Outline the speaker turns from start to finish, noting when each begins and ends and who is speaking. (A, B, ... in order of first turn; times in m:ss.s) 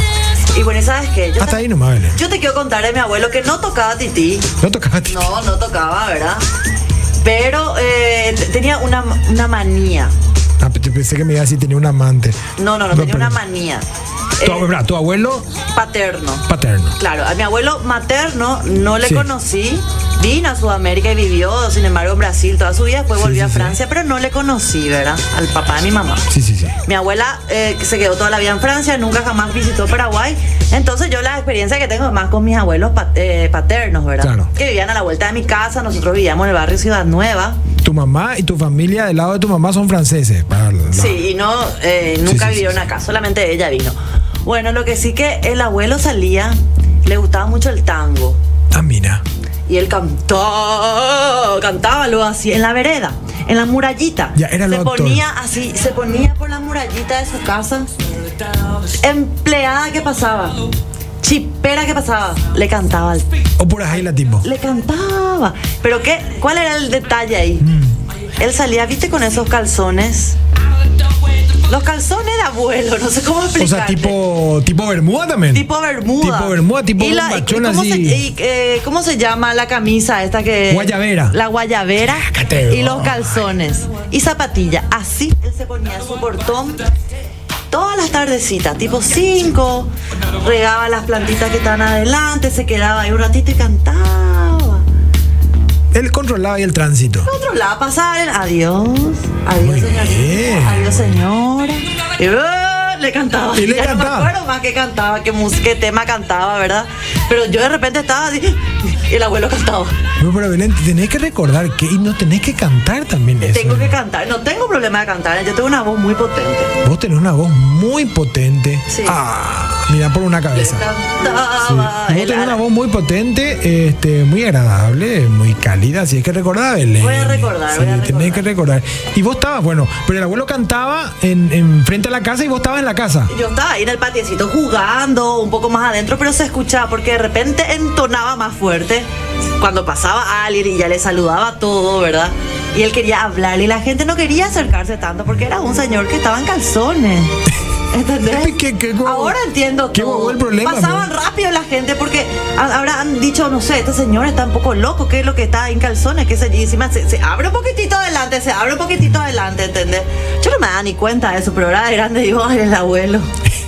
0:00.5-0:04.5 A
0:01.4-0:02.2 B
0:04.6-0:05.3 B
0:05.1-0:06.4 A
0:07.2-0:10.1 A
0:10.6-0:12.4 B
0:12.6-0:13.8 A
0:12.9-0:13.4 B
0:14.4-0:14.7 A
0:14.4-0:15.5 B
0:15.7-0:16.4 A
0:16.5-0:17.0 B
0:17.0-0:26.3 A
0:19.0-0:19.3 B
0:23.2-0:23.8 B
0:26.3-0:26.8 B
0:26.8-0:37.6 A
0:34.2-0:34.5 B
0:37.8-0:41.2 B
0:40.9-0:48.4 A
0:42.2-0:42.8 B
0:48.7-0:49.2 B
0:49.7-0:57.9 A
0:54.3-0:55.2 B
0:59.0-1:00.6 A
1:01.2-1:03.3 A
1:03.6-1:04.5 B
1:04.0-1:07.7 A
1:07.6-1:08.0 B
1:08.4-1:10.4 A
1:11.6-1:14.2 A
1:13.6-1:15.7 B
1:15.5-1:26.8 A
1:16.2-1:18.2 B
1:20.7-1:21.4 B
1:22.0-1:23.5 B
1:27.7-1:34.8 A
1:35.9-1:37.3 B
1:37.2-1:50.0 A
1:39.6-1:41.2 B
1:43.5-1:44.3 B
1:50.2-1:54.0 B
1:53.4-1:56.7 A
1:56.8-2:00.8 B
1:58.9-1:59.2 A
2:00.5-2:02.6 A
2:01.6-2:13.3 B
2:07.0-2:08.5 A
2:13.3-2:19.1 A
2:19.6-2:27.3 A
2:27.9-2:43.3 A
2:28.2-2:29.4 B
2:29.9-2:31.1 B